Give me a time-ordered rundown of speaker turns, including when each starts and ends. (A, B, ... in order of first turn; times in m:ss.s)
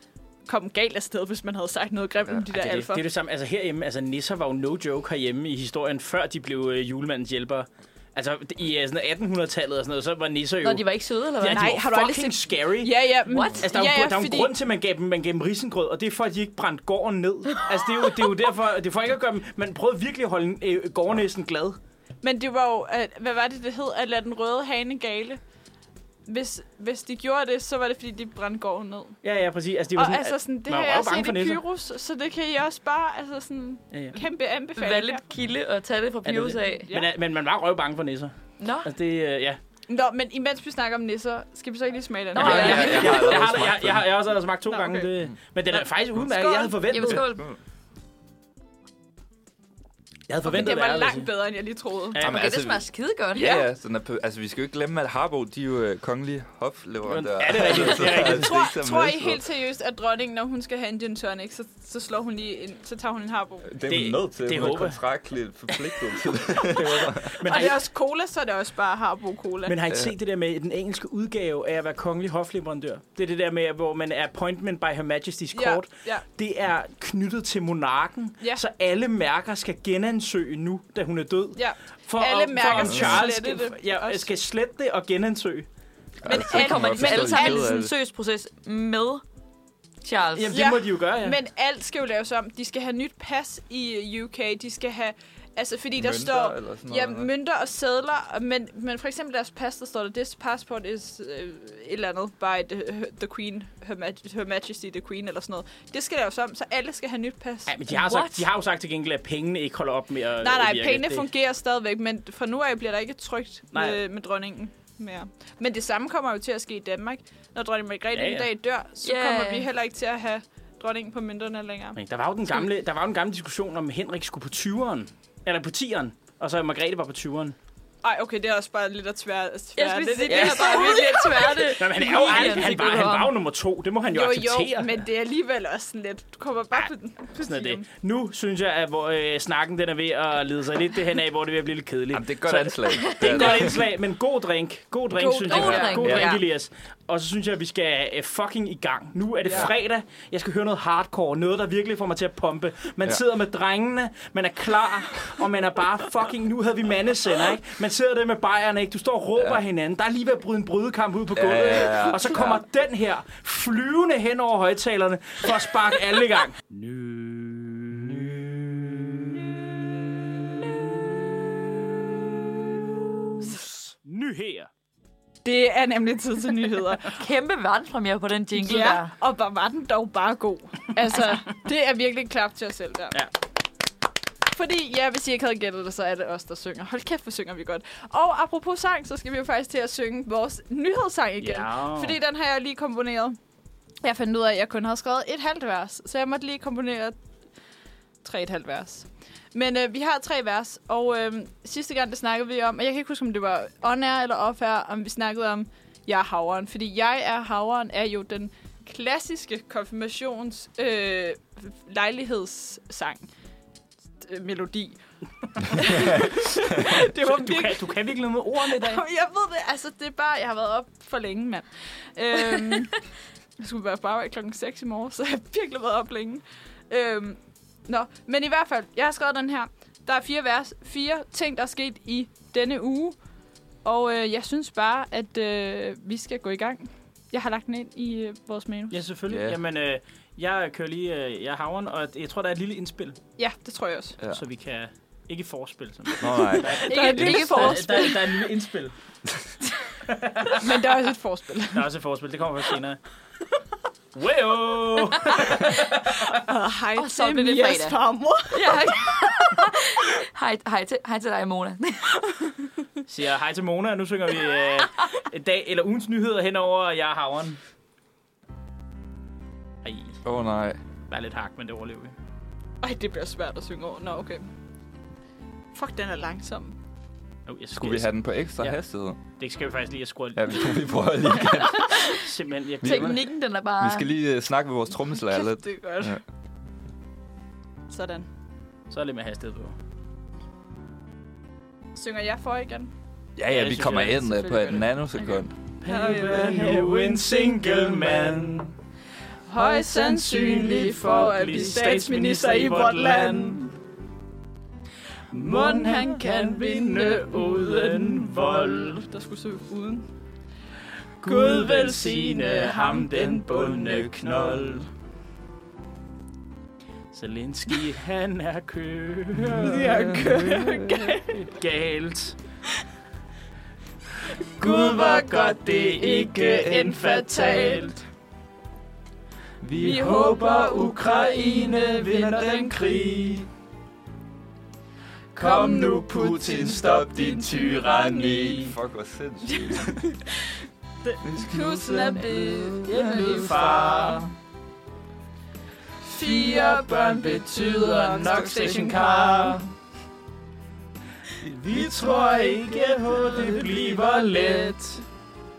0:00.4-0:03.1 A
0:02.5-0:21.8 B
0:10.6-0:12.1 C
0:11.4-0:14.5 A
0:13.2-0:13.6 C
0:22.2-0:25.4 A
0:26.2-0:29.2 A
0:29.2-0:31.6 B
0:29.9-0:35.2 A
0:33.9-0:34.2 B
0:34.8-0:36.9 C
0:36.2-0:39.6 B
0:39.9-0:43.5 A
0:42.3-0:43.4 C
0:42.4-0:44.1 D
0:42.4-0:47.2 B
0:44.7-0:45.1 A
0:45.7-0:46.9 A
0:46.9-0:47.4 C
0:47.1-0:47.6 D
0:50.3-0:51.3 B
0:50.4-0:52.2 A
0:52.1-0:52.4 B
0:52.2-0:59.4 D
0:52.2-0:53.6 C
0:57.0-0:58.6 B
0:57.6-1:03.7 A
1:03.6-1:07.4 D
1:03.9-1:05.0 B
1:06.7-1:07.8 B
1:07.4-1:09.8 A
1:09.6-1:25.7 B
1:09.9-1:10.1 D
1:15.5-1:16.2 A
1:21.6-1:24.3 A
1:22.8-1:23.2 D
1:26.2-1:27.9 D
1:26.2-1:27.7 A
1:26.3-1:29.2 C
1:30.0-1:30.6 C
1:30.3-1:31.4 B
1:30.5-1:48.3 A
1:36.0-1:37.3 D
1:47.6-1:51.3 B
1:50.4-2:02.0 A
1:53.7-1:54.0 B
1:58.1-1:58.5 B
1:59.0-1:59.6 C
2:01.9-2:07.6 B
2:08.0-2:12.8 A
2:09.8-2:13.3 C
2:10.2-2:11.0 B
2:11.7-2:15.0 B
2:14.1-2:17.8 A
2:17.4-2:49.5 B
2:22.1-2:23.8 D
2:25.2-2:26.2 A
2:25.4-2:26.4 C
2:25.9-2:26.3 D
2:41.3-2:42.6 D
2:53.4-2:54.7 B
2:55.4-2:57.2 A
2:57.1-2:59.1 C
2:58.5-3:03.2 A
3:01.1-3:01.4 C
3:04.4-3:13.4 A
3:11.4-3:12.2 B
3:14.0-3:17.2 A
3:18.2-3:33.2 A
3:34.2-3:35.0 A
3:35.6-3:38.0 A
3:36.8-3:39.0 B
3:38.6-3:43.0 A
3:43.6-3:53.2 A
3:53.8-3:59.0 A
3:58.9-4:03.2 B
3:59.3-3:59.6 D
4:03.4-4:04.2 A
4:04.3-4:08.9 B
4:06.2-4:07.6 D
4:06.7-4:08.5 A
4:06.9-4:08.1 C
4:10.0-4:10.8 B
4:10.6-4:11.9 A
4:11.7-4:13.0 B
4:14.1-4:16.4 B
4:16.3-4:19.2 A
4:17.0-4:18.0 C
4:18.5-4:22.1 C
4:23.1-4:27.6 B
4:29.8-4:30.2 B
4:30.2-4:30.8 D
4:31.1-4:32.1 B
4:32.8-4:34.4 A
4:35.7-4:36.8 A
4:37.5-4:38.8 B
4:37.8-4:39.2 D
4:39.3-4:40.7 B
4:40.4-4:42.1 D
4:41.5-4:42.2 C
4:42.1-4:43.2 B
4:42.8-4:43.2 D
4:42.8-4:44.1 C
4:43.8-4:46.2 D
4:45.4-4:46.2 A
4:47.9-4:48.3 A
4:48.9-4:49.8 B
4:51.9-4:52.9 A
4:53.4-4:55.5 D
4:53.5-4:54.9 B
4:55.8-4:58.8 B
4:55.9-4:57.4 A
4:59.5-5:03.7 A
4:59.8-5:03.6 B
5:05.3-5:09.0 B
5:05.4-5:10.1 A
5:11.2-5:14.9 B
5:11.2-5:14.7 A
5:17.1-5:20.0 B
5:19.4-5:21.1 D
5:19.5-5:21.4 A
5:21.2-5:22.4 B
5:24.6-5:28.0 B
5:24.6-5:28.0 A
5:29.6-5:30.0 D
5:29.7-5:33.5 B
5:29.8-5:32.8 A
5:35.4-5:38.7 B
5:35.4-5:38.7 A
5:38.1-5:40.1 D
5:39.5-5:40.4 A
5:41.0-5:44.3 A
5:41.2-5:43.6 D
5:42.8-5:44.3 B
5:46.0-5:49.6 A
5:46.6-5:49.6 B
5:51.4-5:55.0 B
5:51.9-5:54.8 A